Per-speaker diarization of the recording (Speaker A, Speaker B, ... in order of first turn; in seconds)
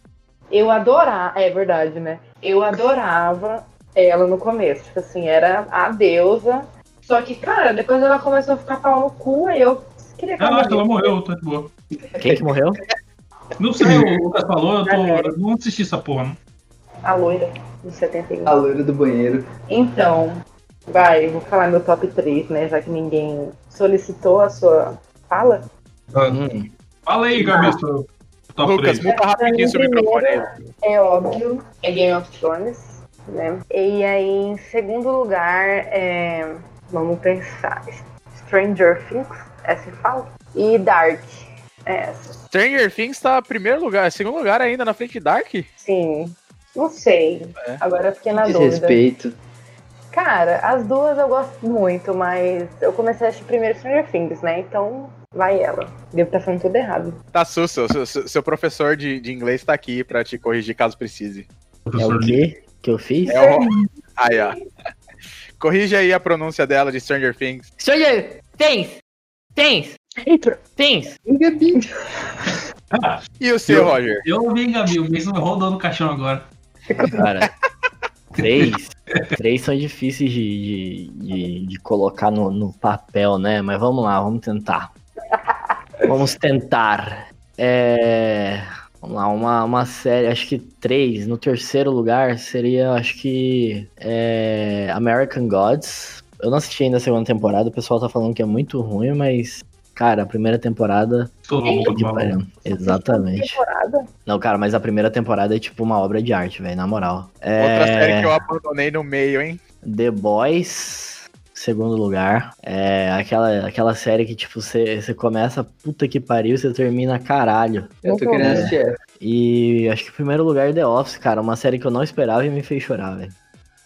Speaker A: 0.5-11.2, 14.8-15.3, 17.0-18.6, 19.7-25.6, 29.0-42.4, 45.8-49.0, 50.1-57.2, 63.3-64.5, 70.2-70.6, 76.9-77.2, 101.6-102.0, 102.6-104.1, 118.0-118.7
Speaker B: 10.4-11.7, 13.6-16.4, 26.1-26.4, 27.1-29.1, 61.9-62.4, 72.9-76.5, 78.4-79.3, 101.4-102.4
Speaker C: 12.2-12.8, 26.3-26.7, 62.0-63.4, 67.8-69.0, 69.5-70.0, 70.7-71.1, 77.2-77.5, 78.4-84.9, 86.0-101.3, 101.8-103.6, 104.2-108.4, 109.8-123.3
Speaker D: 18.4-19.4, 48.4-49.4, 71.2-71.8, 118.0-119.0
Speaker E: 28.6-30.4, 42.5-45.7, 57.3-61.5, 63.3-64.5, 65.6-67.7, 73.4-74.2, 107.6-109.6